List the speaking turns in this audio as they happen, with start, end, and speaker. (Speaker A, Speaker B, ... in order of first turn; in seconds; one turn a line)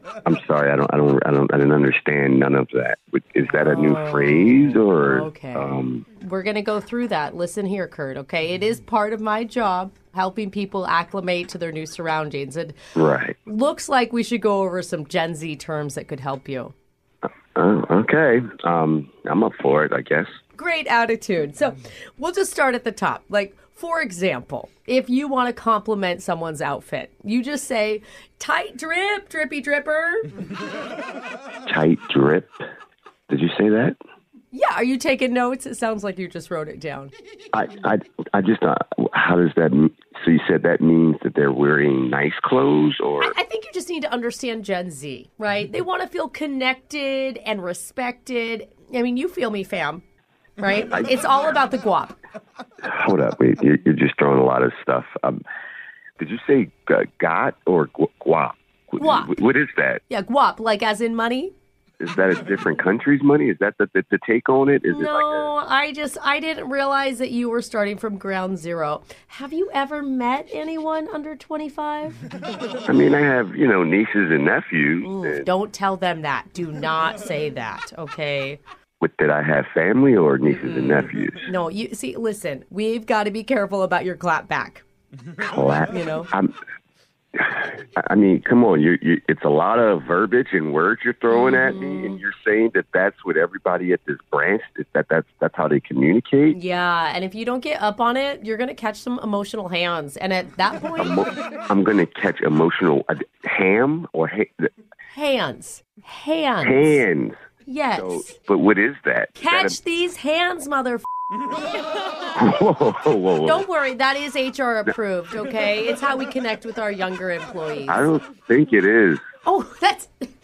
Speaker A: 0.2-6.0
Speaker B: 3.4-12.8
Speaker A: 13.0-13.4
Speaker B: 13.5-16.7
Speaker A: 17.6-20.4
Speaker B: 20.6-30.3
Speaker A: 31.7-32.6
Speaker A: 33.3-34.0
Speaker B: 34.5-37.1
Speaker A: 37.5-43.4
Speaker B: 43.2-50.0
Speaker B: 50.6-52.2
Speaker A: 50.8-51.1
Speaker A: 52.9-55.4
Speaker A: 56.2-60.0
Speaker B: 59.0-59.4
Speaker B: 60.1-61.5
Speaker A: 62.0-65.5
Speaker B: 64.9-72.2
Speaker A: 72.9-75.5
Speaker B: 75.0-78.6
Speaker A: 79.0-81.4
Speaker B: 80.5-84.8
Speaker A: 85.4-86.5
Speaker B: 85.9-86.3
Speaker A: 87.4-96.6
Speaker B: 91.3-92.2
Speaker B: 96.5-101.2
Speaker A: 101.0-104.7
Speaker B: 105.1-107.0
Speaker A: 106.6-107.4
Speaker B: 107.7-108.3
Speaker A: 108.0-109.8
Speaker B: 109.4-111.0
Speaker A: 112.3-113.7
Speaker B: 113.5-118.0
Speaker A: 117.9-119.2
Speaker B: 119.5-120.1